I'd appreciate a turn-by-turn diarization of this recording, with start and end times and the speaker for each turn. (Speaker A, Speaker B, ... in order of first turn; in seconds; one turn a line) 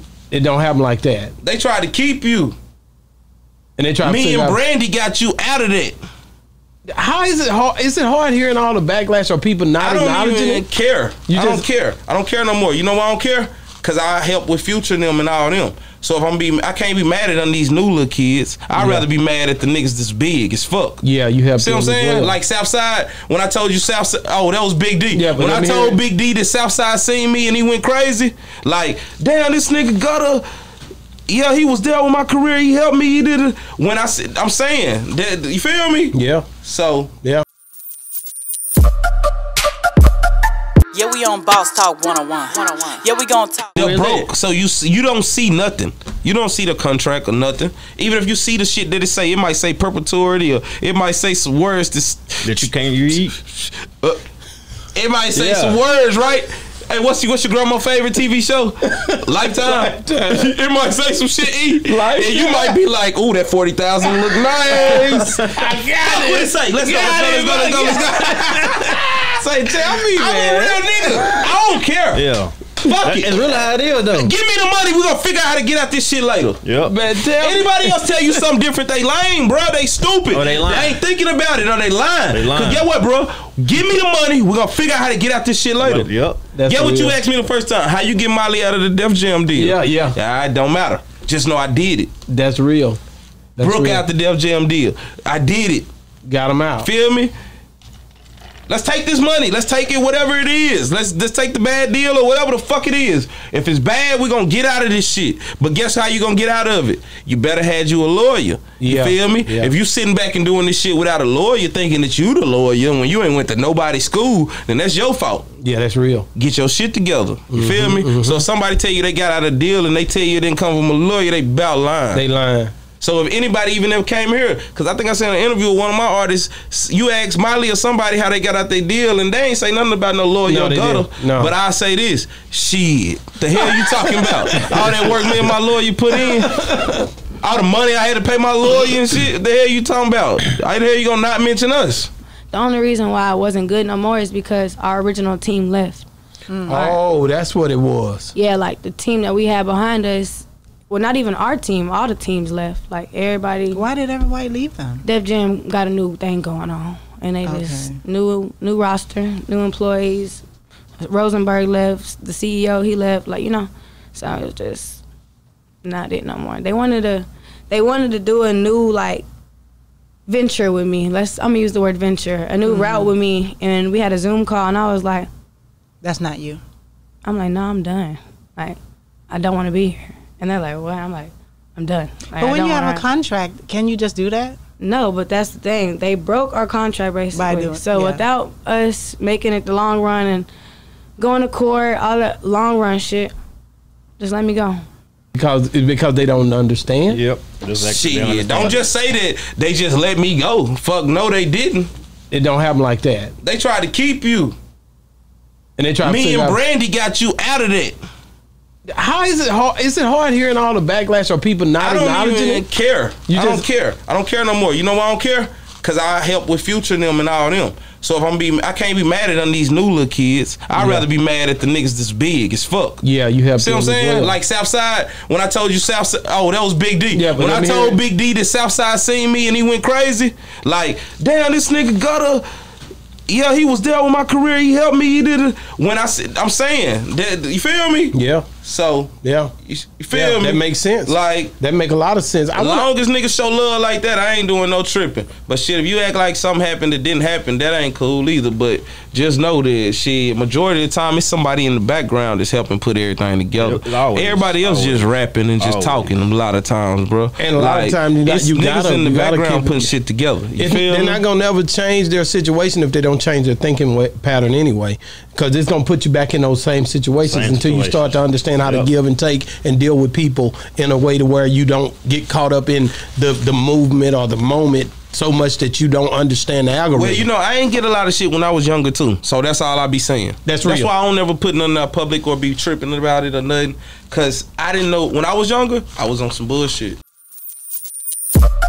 Speaker A: 0.3-1.3
Speaker B: 1.4-2.5
Speaker A: 3.8-4.6
Speaker B: 4.0-6.0
Speaker A: 7.0-10.7
Speaker B: 9.8-21.0
Speaker A: 11.3-11.6
Speaker A: 18.7-19.1
Speaker A: 21.0-22.3
Speaker B: 21.6-30.4
Speaker A: 25.1-26.0
Speaker B: 31.3-37.1
Speaker A: 36.1-36.5
Speaker C: 40.9-43.8
Speaker B: 43.8-54.2
Speaker D: 43.8-44.2
Speaker D: 52.4-53.4
Speaker B: 54.9-72.2
Speaker D: 55.3-55.8
Speaker A: 59.4-60.5
Speaker A: 61.8-62.8
Speaker A: 64.0-71.5
Speaker D: 72.1-74.2
Speaker B: 72.8-76.6
Speaker A: 73.5-74.2
Speaker D: 76.6-76.9
Speaker A: 76.8-78.4
Speaker B: 77.3-86.1
Speaker D: 80.3-81.0
Speaker D: 82.3-82.9
Speaker D: 85.8-86.4
Speaker A: 86.5-87.2
Speaker B: 86.6-92.1
Speaker A: 89.5-90.1
Speaker A: 92.3-93.0
Speaker A: 93.6-94.0
Speaker B: 93.6-95.9
Speaker A: 96.2-96.9
Speaker B: 96.8-97.3
Speaker B: 98.7-115.5
Speaker A: 108.8-109.7
Speaker A: 115.6-116.3
Speaker B: 116.3-122.2
Speaker A: 117.5-118.4
Speaker A: 122.1-122.7
Speaker B: 123.0-136.7
Speaker A: 130.4-131.5
Speaker A: 133.6-135.4
Speaker A: 136.2-137.0
Speaker B: 137.4-142.1
Speaker E: 142.5-146.1
Speaker F: 146.5-146.9
Speaker A: 146.7-148.3
Speaker E: 148.3-153.8
Speaker F: 153.7-155.0
Speaker E: 155.0-160.4
Speaker F: 157.4-158.0
Speaker E: 161.0-165.0
Speaker E: 165.8-169.2
Speaker E: 170.3-175.3
Speaker F: 172.6-173.1
Speaker F: 176.0-176.6
Speaker E: 177.2-178.8
Speaker E: 179.3-183.1
Speaker F: 182.4-184.6
Speaker E: 184.8-190.5
Speaker F: 187.3-188.2
Speaker E: 191.2-193.3
Speaker E: 194.2-194.8
Speaker A: 195.3-197.2
Speaker D: 197.1-198.8
Speaker B: 197.8-201.9
Speaker A: 202.3-203.3
Speaker B: 203.4-204.6
Speaker A: 205.8-206.6
Speaker B: 206.0-208.0
Speaker A: 208.9-212.7
Speaker B: 211.8-223.0
Speaker A: 213.3-213.7
Speaker A: 220.7-221.1
Speaker A: 223.0-224.3
Speaker B: 223.6-232.4
Speaker A: 227.1-228.0
Speaker B: 233.3-239.1
Speaker A: 238.1-238.5
Speaker A: 239.2-239.5
Speaker B: 239.6-241.5
Speaker A: 240.1-242.8
Speaker B: 242.5-261.2
Speaker D: 253.6-256.1
Speaker A: 257.4-259.9
Speaker A: 260.6-277.2
Speaker D: 267.2-268.9
Speaker B: 276.9-287.0
Speaker A: 280.4-280.9